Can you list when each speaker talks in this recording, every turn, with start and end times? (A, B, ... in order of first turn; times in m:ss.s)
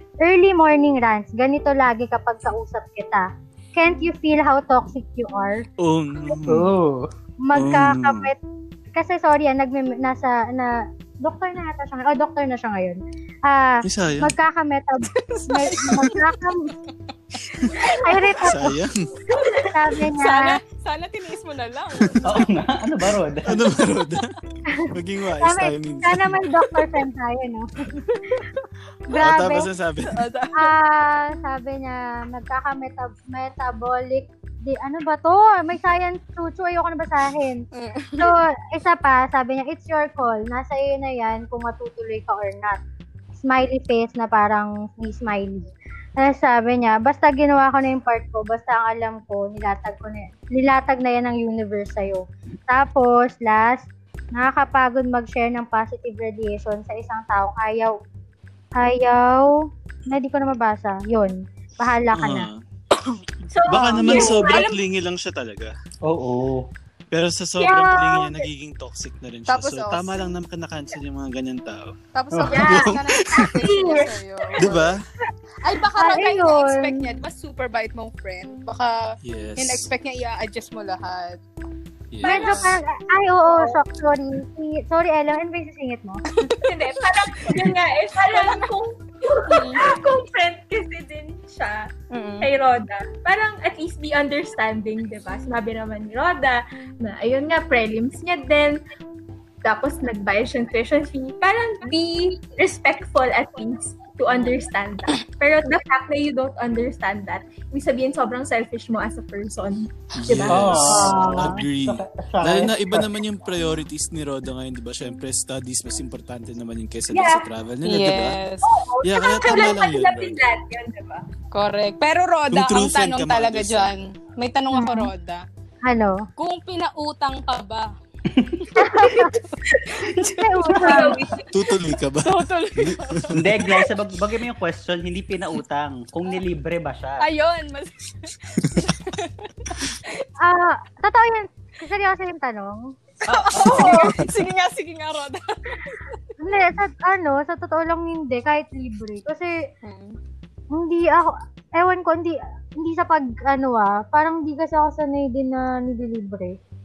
0:00.2-0:05.6 A
0:05.8-0:06.7 B
0:06.5-0:07.1 C
0:07.4-0:08.4 A
0:07.5-0:08.3 B
0:09.0-0:16.7 A
0:13.8-0:14.3 B
0:15.1-0:16.7 D
0:17.4-0:18.4 D
0:17.9-0:18.8 A
0:18.4-0:19.1 B
0:19.4-0:22.5 D
0:19.7-0:20.6 A
0:22.0-0:22.3 B
0:22.2-0:23.6 C
0:23.4-0:24.3 B
0:24.9-0:26.5 B
0:25.4-0:28.0 A
0:29.1-0:29.7 A
0:29.1-0:30.2 B
0:30.1-0:30.7 D
0:30.6-0:37.6 A
0:37.7-0:38.4 D
0:38.2-0:42.8 A
0:43.4-0:58.0 A
0:58.8-1:02.5 A
1:02.1-1:02.6 B
1:03.5-1:04.8 E
1:03.6-1:05.7 B
1:06.0-1:06.7 C
1:07.1-1:13.5 B
1:07.6-1:08.4 A
1:09.5-1:10.1 D
1:12.1-1:14.9 D
1:12.5-1:14.8 E
1:14.6-1:15.0 B
1:15.6-1:21.4 D
1:16.0-1:17.0 A
1:19.2-1:19.9 B
1:22.1-1:22.6 B
1:22.2-1:26.2 A
1:22.2-1:22.8 D
1:26.3-1:28.7 D
1:26.6-1:31.9 E
1:29.5-1:29.9 D
1:32.1-1:32.5 D
1:32.4-1:38.8 E
1:39.6-1:51.6 E
1:50.1-1:58.4 B
1:50.4-1:53.2 C
1:57.1-1:57.4 E
1:57.8-1:58.7 D
1:58.6-2:01.2 E
1:59.0-2:00.4 B
2:01.5-2:05.4 D
2:02.5-2:03.9 B
2:04.7-2:05.1 A
2:05.8-2:06.2 A
2:06.4-2:07.9 D
2:08.3-2:08.6 C
2:08.6-2:11.2 D
2:08.8-2:09.3 A
2:09.1-2:09.8 E
2:10.3-2:11.2 A
2:10.7-2:11.7 E
2:11.5-2:13.5 B
2:12.2-2:13.9 D
2:13.3-2:17.2 C
2:17.2-2:20.2 D
2:18.6-2:18.9 B
2:20.4-2:22.9 A
2:23.2-2:24.0 C
2:23.3-2:26.1 D
2:23.7-2:24.0 E
2:23.8-2:24.1 A
2:26.4-2:29.6 A
2:29.8-2:30.2 D
2:30.7-2:36.6 A